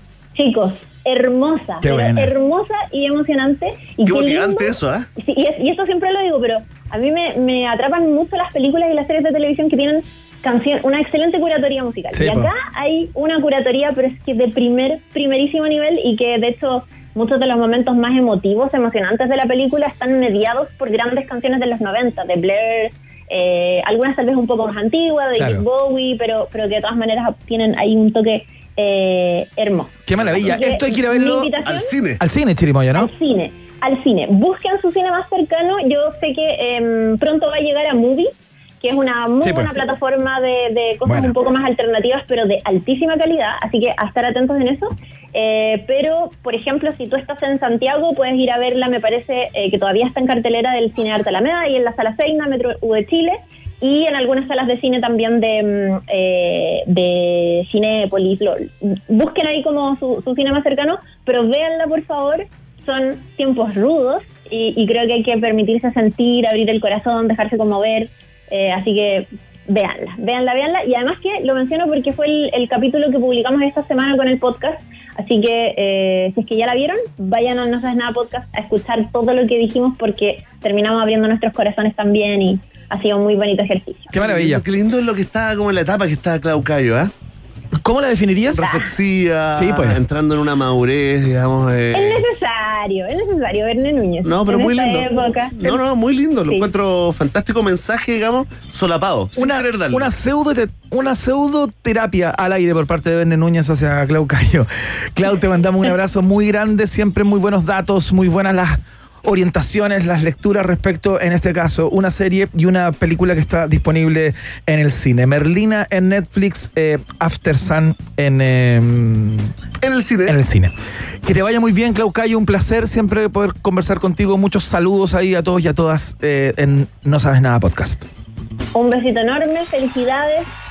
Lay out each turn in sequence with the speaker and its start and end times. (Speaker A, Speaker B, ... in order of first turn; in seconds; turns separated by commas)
Speaker A: 0.3-31.9, Speaker B: 1.8-2.3, Speaker C: 4.0-5.1, Speaker B: 12.1-12.5, Speaker B: 25.4-25.6, Speaker B: 30.1-31.5, Speaker C: 30.2-30.5, Speaker C: 31.6-32.2, Speaker B: 32.2-33.1, Speaker A: 32.9-84.1, Speaker B: 39.4-39.7, Speaker B: 41.0-41.3, Speaker B: 84.1-84.6, Speaker C: 84.2-87.1, Speaker B: 87.8-88.7, Speaker C: 88.5-92.2, Speaker A: 88.6-88.9, Speaker B: 89.5-90.0, Speaker A: 91.9-95.7, Speaker C: 94.2-95.1, Speaker C: 95.6-100.1, Speaker B: 99.4-119.5, Speaker C: 119.8-120.3, Speaker B: 120.3-120.7, Speaker B: 121.2-128.1, Speaker A: 128.7-130.5